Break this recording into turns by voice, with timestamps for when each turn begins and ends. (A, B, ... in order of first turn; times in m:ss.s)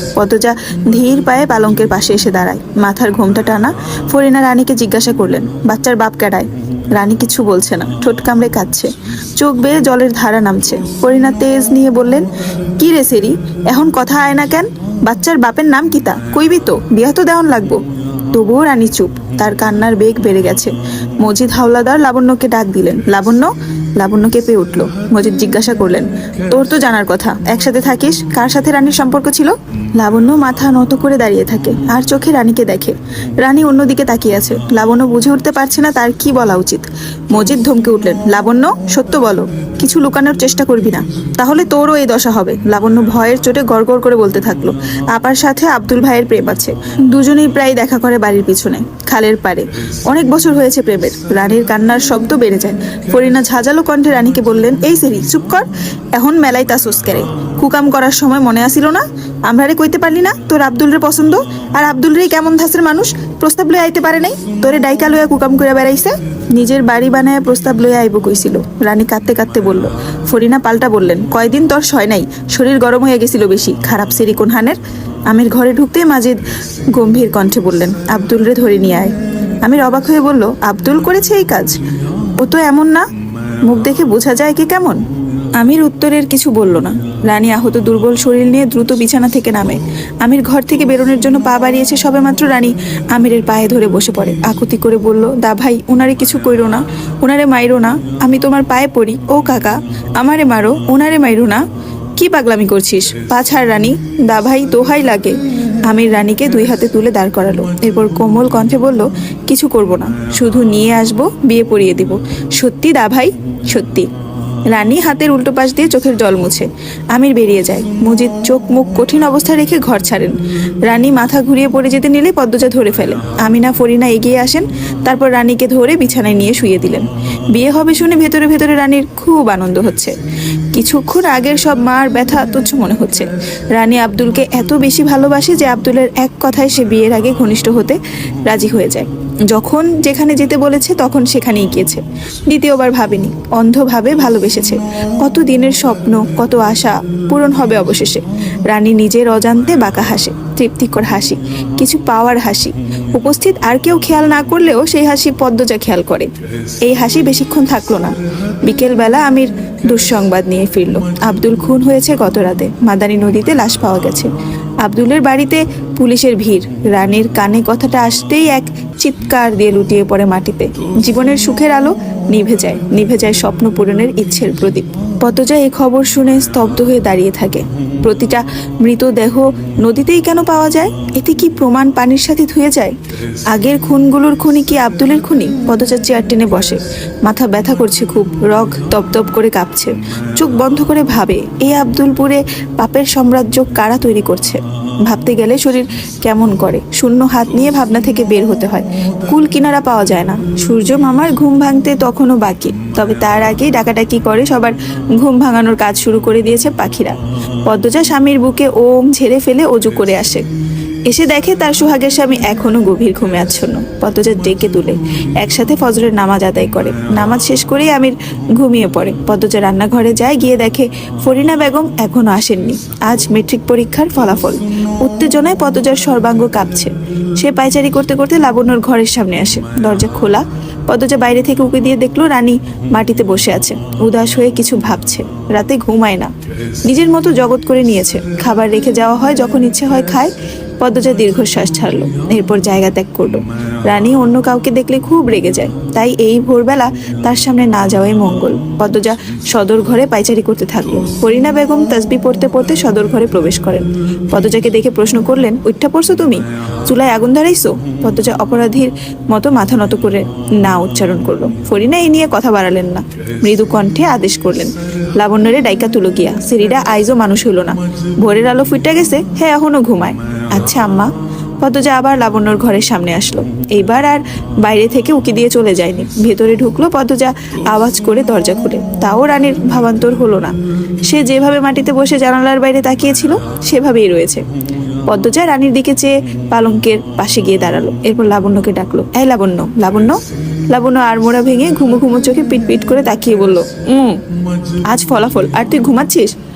0:00.2-1:16.4 A
1:16.9-1:21.8 A
1:22.4-1:23.1 A
1:23.6-1:25.0 A
1:25.6-1:41.7 A
1:42.2-1:54.1 A
1:54.7-2:10.2 A
2:10.7-2:36.3 A
2:36.8-2:44.3 A
2:44.8-3:03.0 A
3:03.5-3:30.5 A
3:31.1-3:56.3 A
3:56.8-4:40.5 A
4:41.1-4:44.4 A
4:45.1-4:50.2 A
4:50.7-4:54.2 A
4:54.9-4:56.3 A